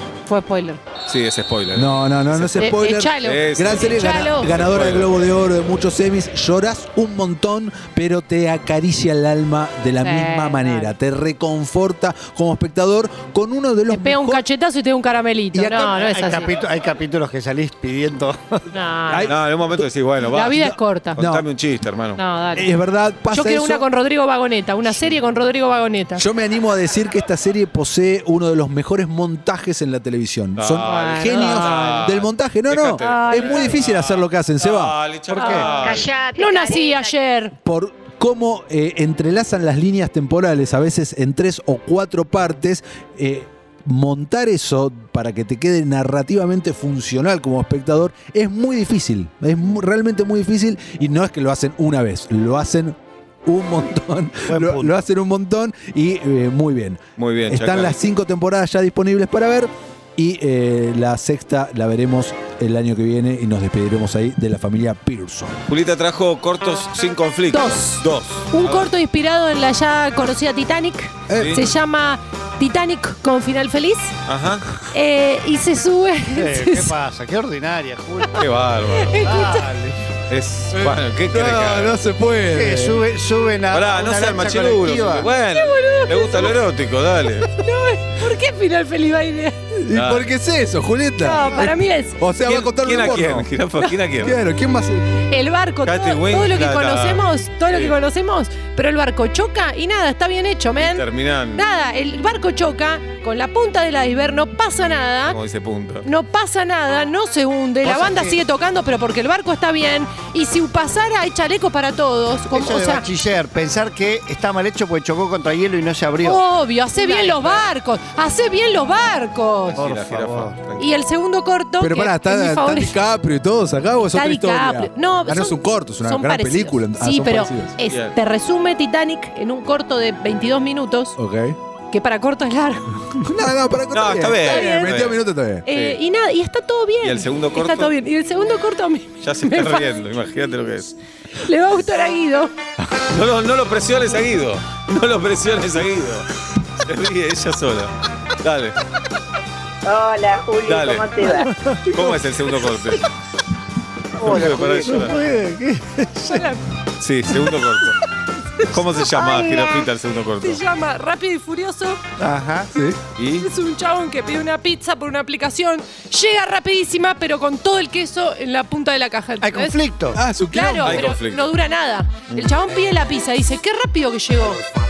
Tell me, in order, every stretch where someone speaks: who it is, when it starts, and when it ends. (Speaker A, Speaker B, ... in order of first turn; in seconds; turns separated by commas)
Speaker A: 0.2-0.8, Speaker B: 1.1-5.1, Speaker C: 1.7-14.4, Speaker A: 2.5-4.5, Speaker A: 10.0-10.9, Speaker A: 13.9-16.5, Speaker C: 15.5-16.0, Speaker D: 15.9-18.6, Speaker A: 18.7-19.3, Speaker C: 19.1-19.9, Speaker B: 19.3-20.6, Speaker A: 20.3-21.2, Speaker C: 20.4-21.4, Speaker B: 21.1-22.2, Speaker A: 22.1-22.7, Speaker C: 22.5-23.9, Speaker A: 23.3-26.2, Speaker C: 24.9-25.1, Speaker C: 26.1-35.0, Speaker B: 30.6-36.1, Speaker A: 30.9-32.0, Speaker A: 33.0-33.7, Speaker D: 35.3-35.8, Speaker A: 35.4-37.5, Speaker E: 35.9-36.5, Speaker C: 37.5-65.6, Speaker D: 54.5-55.0, Speaker B: 57.2-58.0, Speaker B: 65.7-68.9, Speaker A: 67.5-74.1, Speaker C: 71.3-71.6, Speaker B: 71.3-71.7, Speaker B: 74.2-74.7, Speaker A: 74.9-76.9, Speaker D: 76.3-78.5, Speaker B: 78.3-79.2, Speaker A: 79.0-79.6, Speaker D: 79.1-80.0, Speaker B: 80.3-82.0, Speaker C: 80.7-83.0, Speaker D: 82.5-85.3, Speaker B: 83.7-87.5, Speaker A: 85.5-86.5, Speaker A: 87.5-89.5, Speaker C: 89.7-93.5, Speaker B: 89.9-90.2, Speaker A: 91.2-92.2, Speaker B: 92.4-94.4, Speaker C: 94.2-95.2, Speaker A: 95.2-105.4, Speaker B: 95.8-98.0, Speaker B: 100.8-101.6, Speaker B: 105.3-106.0, Speaker A: 106.0-113.0, Speaker D: 107.8-108.4, Speaker D: 112.5-116.4, Speaker A: 116.2-119.8, Speaker D: 116.9-117.6, Speaker B: 119.7-120.9, Speaker D: 119.8-120.6, Speaker A: 120.8-123.0, Speaker C: 121.8-127.8, Speaker A: 124.1-131.2, Speaker B: 127.9-128.2, Speaker C: 131.2-131.6, Speaker A: 131.9-132.9, Speaker C: 133.2-135.7, Speaker B: 133.9-135.2, Speaker A: 134.4-135.0, Speaker A: 135.6-139.9, Speaker B: 135.7-136.0, Speaker B: 137.0-137.9, Speaker B: 139.2-140.9, Speaker A: 141.4-142.5, Speaker B: 143.0-146.3, Speaker B: 146.8-148.8, Speaker E: 149.8-151.5, Speaker B: 150.6-151.2, Speaker D: 151.2-152.1, Speaker B: 151.9-153.1, Speaker E: 154.2-154.9, Speaker D: 154.2-156.5, Speaker B: 154.2-155.2, Speaker A: 156.3-156.6, Speaker B: 157.0-158.0, Speaker B: 158.7-160.6, Speaker A: 159.1-159.9, Speaker A: 160.4-162.0, Speaker D: 162.2-162.7, Speaker C: 162.7-163.0, Speaker B: 163.2-163.5, Speaker A: 163.4-169.8, Speaker D: 169.4-170.2, Speaker C: 170.1-171.1, Speaker A: 170.5-174.6, Speaker B: 170.8-171.5